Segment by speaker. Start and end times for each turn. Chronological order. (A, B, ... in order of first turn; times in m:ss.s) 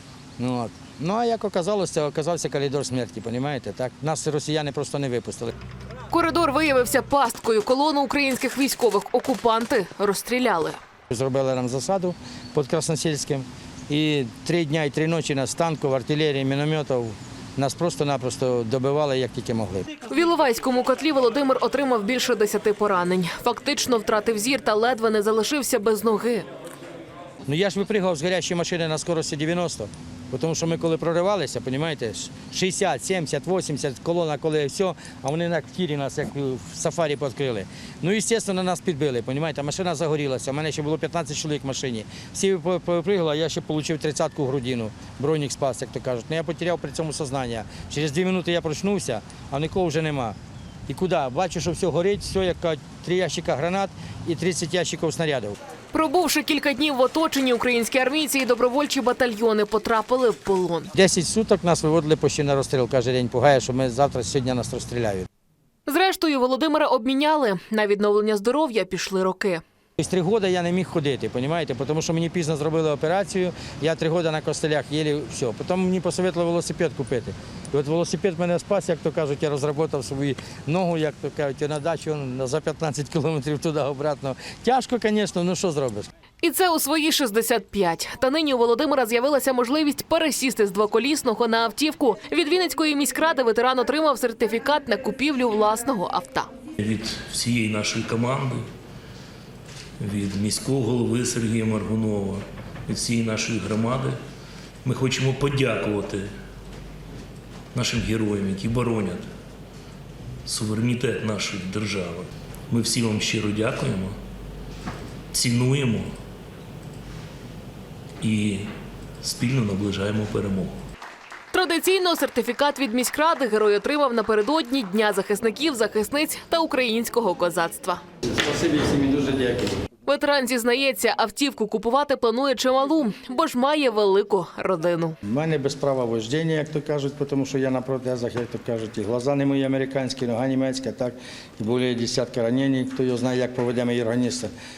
0:00.4-0:05.5 A
0:06.1-0:10.8 B
0:11.1-0:19.9 A
0:20.1-0:26.5 B
0:27.5-0:50.4 A
0:50.9-0:55.6 A
0:55.9-1:00.9 B
1:00.9-1:05.3 A
1:05.9-1:09.6 B
1:10.0-1:26.1 A
1:26.4-1:36.5 B
1:36.8-1:38.6 C
1:40.0-1:44.2 C
1:44.8-1:46.3 C
1:47.7-1:49.3 C
1:50.5-1:54.2 C
1:55.3-1:56.1 C
1:58.2-2:00.7 C
2:01.5-2:08.0 B
2:08.2-2:09.8 A
2:10.1-2:15.2 B
2:15.2-2:24.5 A